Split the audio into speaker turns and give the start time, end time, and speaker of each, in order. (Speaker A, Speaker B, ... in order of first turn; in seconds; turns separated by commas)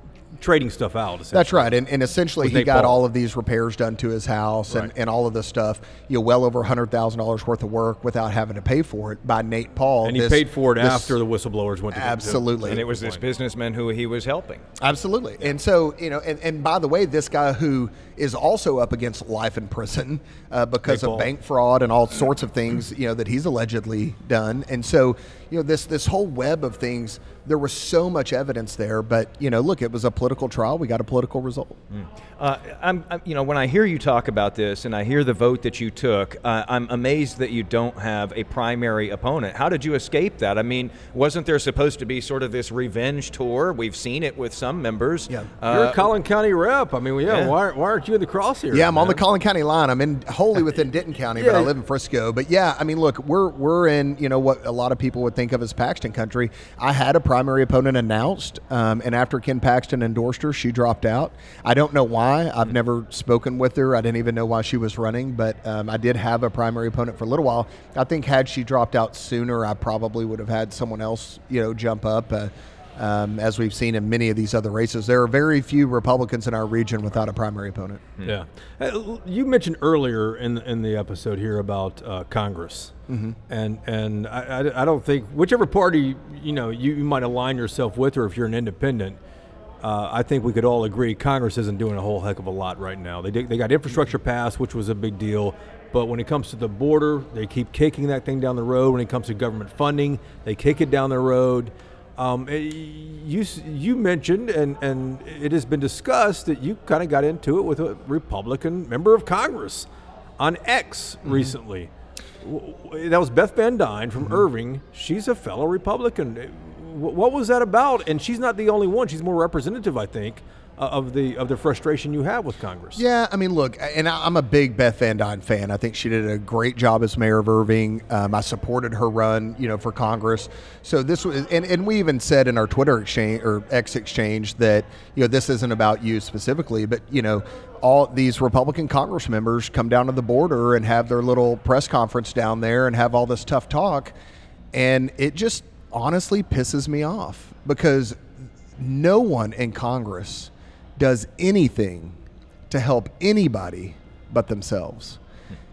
Speaker A: 0.4-1.7, Speaker B: 1.3-11.2, Speaker A: 2.4-3.0, Speaker A: 10.0-13.2, Speaker B: 11.9-12.8, Speaker C: 12.6-14.6, Speaker B: 14.8-31.8, Speaker A: 20.8-21.3, Speaker C: 31.9-46.1, Speaker A: 45.7-49.2, Speaker C: 47.3-47.5, Speaker B: 48.7-78.0, Speaker A: 51.4-51.7, Speaker A: 78.2-82.9, Speaker B: 83.1-83.4, Speaker A: 83.5-89.2, Speaker A: 89.8-109.8, Speaker A: 110.4-111.9, Speaker A: 112.4-123.0, Speaker B: 123.0-144.1, Speaker B: 144.7-152.2, Speaker B: 152.7-155.2